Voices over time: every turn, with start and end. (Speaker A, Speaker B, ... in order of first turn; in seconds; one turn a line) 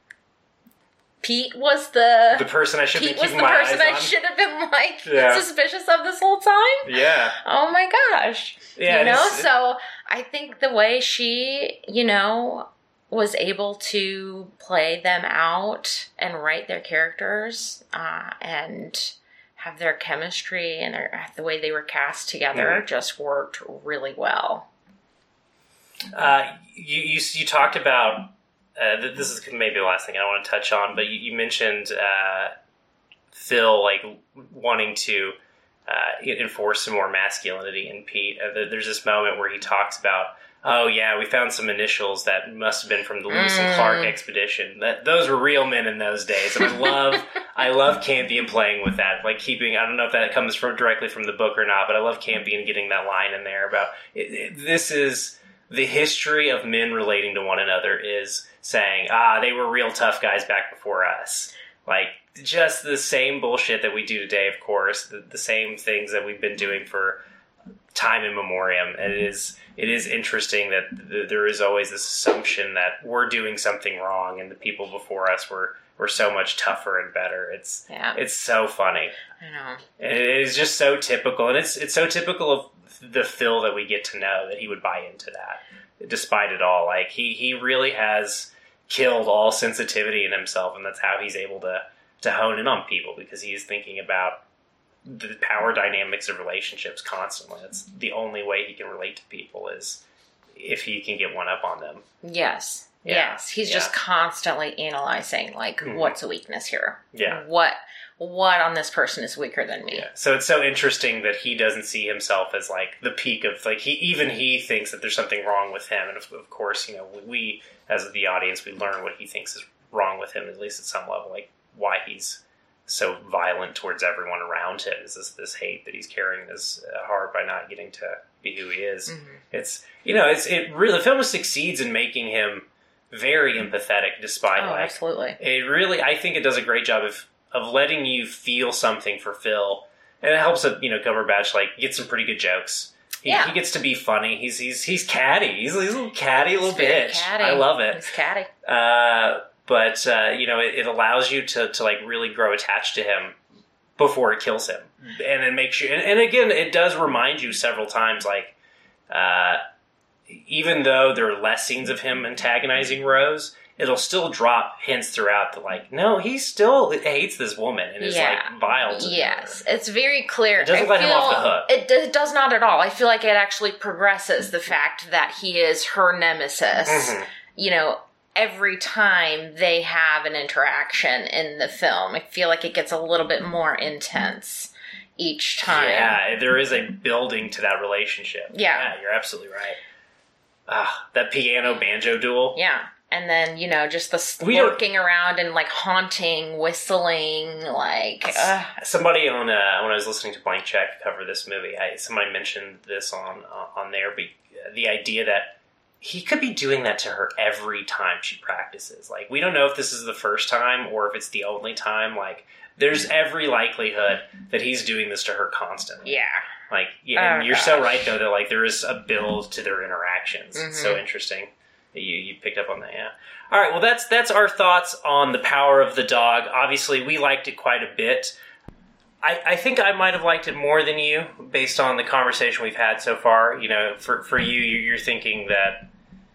Speaker A: 1.2-24.7
Speaker B: 2.3-4.1
Speaker B: 5.0-5.5
Speaker B: 6.8-7.4
Speaker B: 8.8-9.5
Speaker B: 22.5-22.8
Speaker B: 26.1-32.5
Speaker B: 33.3-35.4
Speaker B: 35.9-67.2
Speaker A: 43.3-44.2
Speaker B: 67.9-79.2
Speaker A: 77.9-78.2
Speaker A: 79.4-79.8
Speaker B: 80.0-94.4
Speaker B: 95.0-100.0
Speaker B: 100.5-102.0
Speaker A: 102.2-110.1
Speaker B: 103.0-103.9
Speaker B: 105.8-106.2
Speaker B: 107.1-107.4
Speaker B: 109.9-148.0
Speaker A: 129.1-129.4
Speaker A: 134.6-135.4
Speaker A: 143.3-143.5
Speaker A: 146.4-148.5
Speaker B: 148.7-153.4
Speaker B: 154.0-158.6
Speaker B: 159.1-159.6
Speaker B: 160.3-169.6
Speaker A: 168.0-186.2
Speaker B: 170.6-171.7
Speaker B: 176.9-177.3
Speaker B: 185.6-189.8
Speaker A: 188.5-188.9
Speaker B: 190.7-192.6
Speaker A: 192.6-198.7
Speaker B: 194.4-194.8
Speaker B: 198.3-216.2
Speaker A: 216.1-216.5
Speaker B: 216.7-228.4
Speaker A: 217.2-218.1
Speaker A: 220.6-221.0
Speaker B: 229.2-235.9